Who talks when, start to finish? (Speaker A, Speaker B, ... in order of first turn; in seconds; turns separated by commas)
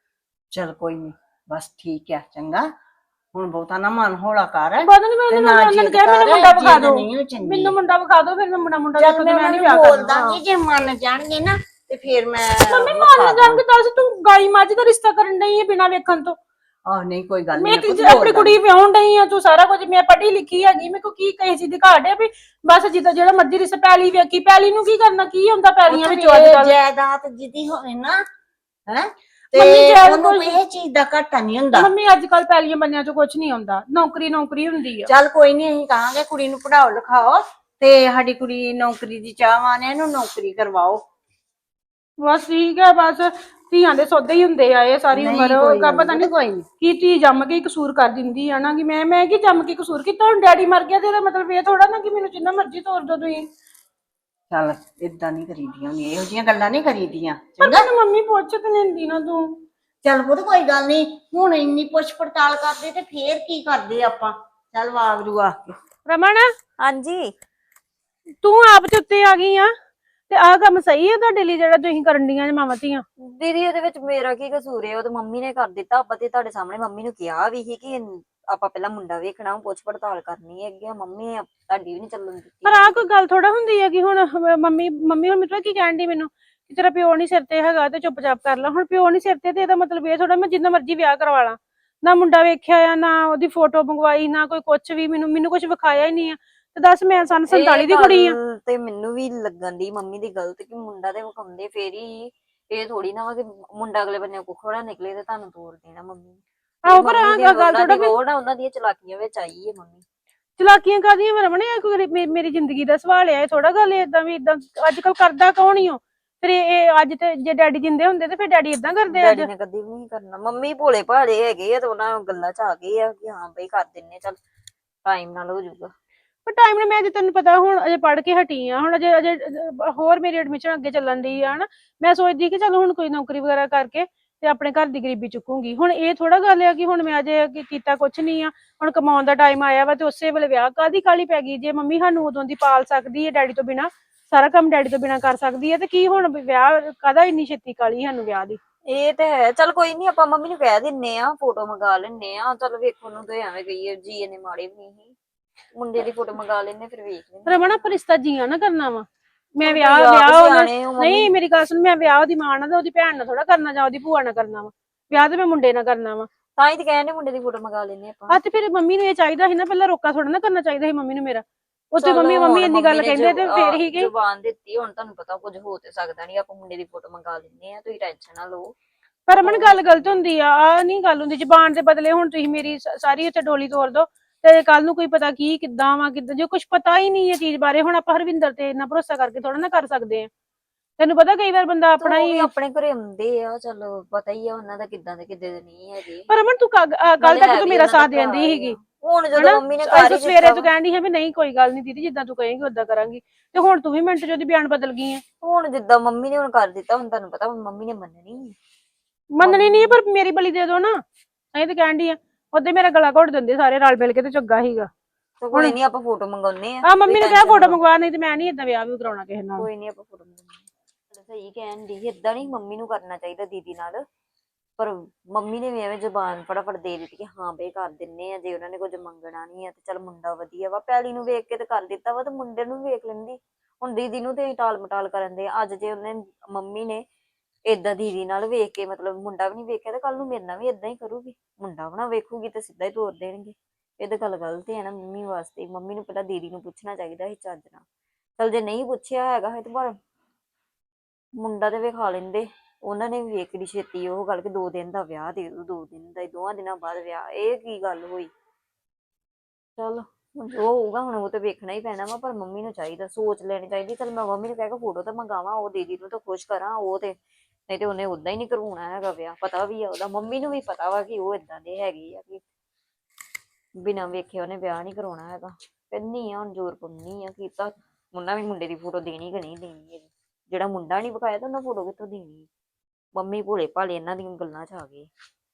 Speaker A: 0.5-2.7, Speaker A: 3.3-7.8, Speaker B: 4.8-10.4, Speaker A: 9.0-13.6, Speaker B: 12.7-16.4, Speaker A: 16.9-18.6, Speaker B: 17.6-26.7, Speaker A: 25.9-28.2, Speaker A: 28.9-31.9, Speaker B: 29.5-30.6, Speaker B: 31.7-35.1, Speaker A: 35.1-41.0, Speaker B: 42.2-53.5, Speaker A: 45.1-46.7, Speaker A: 54.5-57.9, Speaker B: 57.6-59.6, Speaker A: 60.0-65.8, Speaker B: 66.1-66.5, Speaker C: 66.8-67.3, Speaker B: 68.4-69.7, Speaker B: 70.3-73.0, Speaker C: 73.2-83.1, Speaker B: 82.6-98.4, Speaker C: 97.5-110.0, Speaker B: 106.8-108.1, Speaker B: 110.6-119.5, Speaker C: 119.1-124.4, Speaker C: 125.0-125.9, Speaker B: 126.5-148.6, Speaker C: 148.9-155.1, Speaker C: 155.7-157.6, Speaker B: 157.5-159.1, Speaker B: 159.6-166.3, Speaker C: 159.6-161.3, Speaker C: 166.6-168.4, Speaker B: 168.3-174.1, Speaker C: 172.0-178.7, Speaker B: 179.3-190.3, Speaker C: 179.3-180.2, Speaker B: 191.0-192.5, Speaker C: 192.0-196.3, Speaker B: 196.3-198.8, Speaker C: 197.2-200.7, Speaker B: 199.3-205.2, Speaker C: 205.4-208.6, Speaker B: 209.3-211.0, Speaker C: 209.4-210.0, Speaker B: 211.5-214.9, Speaker C: 215.4-217.8, Speaker B: 216.8-219.7, Speaker C: 219.6-224.1, Speaker C: 224.8-237.0, Speaker C: 237.7-247.8, Speaker C: 248.4-250.0, Speaker C: 251.4-258.3, Speaker C: 259.8-267.1, Speaker C: 267.7-272.4, Speaker C: 273.8-282.5, Speaker C: 283.1-285.1